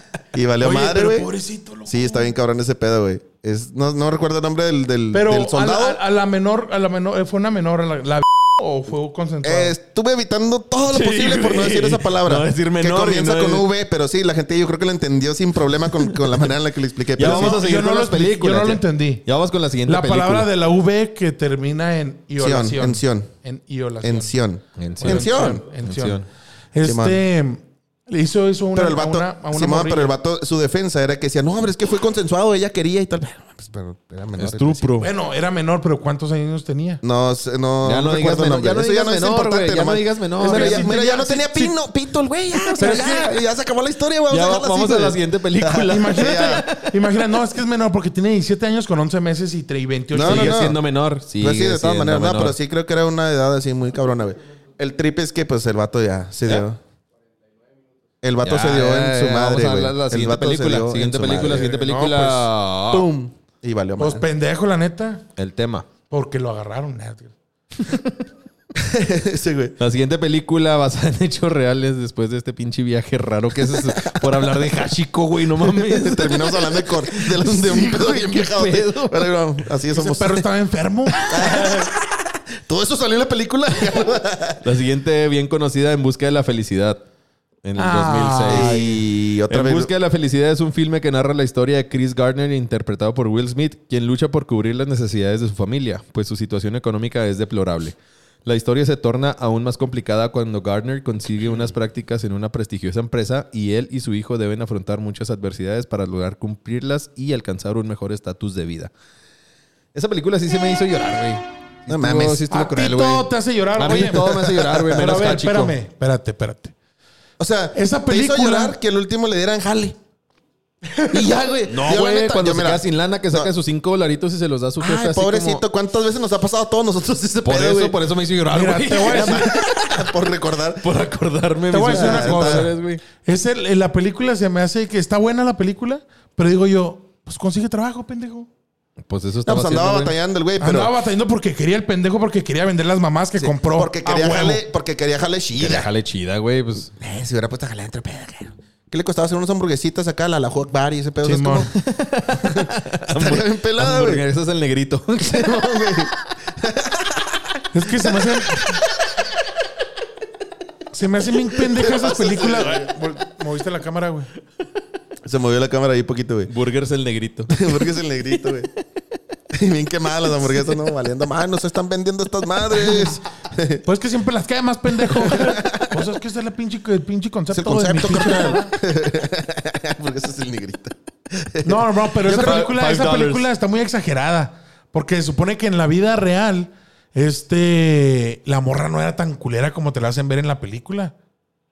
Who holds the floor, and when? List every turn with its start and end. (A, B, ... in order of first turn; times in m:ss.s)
0:00.3-0:01.3 A
0:00.6-0:02.3 B
0:01.9-0:06.0 A
0:05.1-0:09.7 B
0:09.4-0:17.6 A
0:10.9-0:13.7 C
0:17.2-0:20.5 C
0:17.2-0:19.3 B
0:19.8-0:24.3 B
0:22.4-0:23.3 A
0:24.0-0:25.6 A
0:24.8-0:26.3 C
0:25.0-0:30.1 B
0:26.8-0:27.2 A
0:28.7-0:35.0 A
0:34.4-0:35.1 C
0:35.0-0:37.0 B
0:37.0-0:46.6 A
0:37.8-0:40.9 C
0:40.4-0:41.7 B
0:42.6-0:43.1 C
0:42.7-0:43.3 B
0:44.3-0:47.2 C
0:45.8-0:50.6 B
0:50.1-0:50.8 A
0:50.2-0:52.6 C
0:51.4-0:56.8 A
0:58.2-1:01.7 A
0:58.4-1:03.1 C
1:01.4-1:02.5 B
1:02.9-1:04.2 A
1:04.0-1:05.2 B
1:05.4-1:05.9 C
1:06.1-1:08.0 B
1:08.7-1:09.8 A
1:09.8-1:19.3 C
1:13.9-1:14.3 A
1:15.6-1:20.4 A
1:19.9-1:21.3 B
1:21.3-1:24.6 A
1:24.6-1:27.0 C
1:27.6-1:28.9 C
1:27.8-1:29.0 B
1:28.5-1:29.9 A
1:29.5-1:48.9 C
1:49.9-1:55.8 C
1:51.9-1:52.4 A
1:52.5-1:56.7 B
1:54.1-1:55.2 A
1:57.4-2:00.0 A
1:57.7-1:58.8 B
2:00.9-2:01.2 B
2:01.1-2:03.5 A
2:01.6-2:05.6 C
2:04.8-2:08.1 A
2:07.4-2:09.9 C
2:08.5-2:09.5 B
2:09.0-2:10.8 A
2:10.8-2:13.0 C
2:11.7-2:18.5 B
2:11.9-2:12.7 A
2:19.0-2:20.2 C
2:19.4-2:20.9 A
2:20.6-2:24.6 B
2:23.4-2:25.9 A
2:25.6-2:26.9 C
2:27.0-2:31.7 A
2:31.2-2:31.7 B
2:31.8-2:36.1 C
2:32.3-2:34.2 A
2:35.3-2:39.1 A
2:37.7-2:38.8 B
2:40.9-2:44.3 B
2:41.6-2:42.9 A
2:45.2-2:46.5 A
2:46.5-2:47.9 C
2:47.5-2:48.7 A
2:49.5-2:53.8 A
2:50.5-2:50.7 C
2:53.8-2:58.7 B
2:55.1-2:56.0 A
2:57.5-3:02.6 A
3:01.6-3:11.1 B
3:02.3-3:03.4 C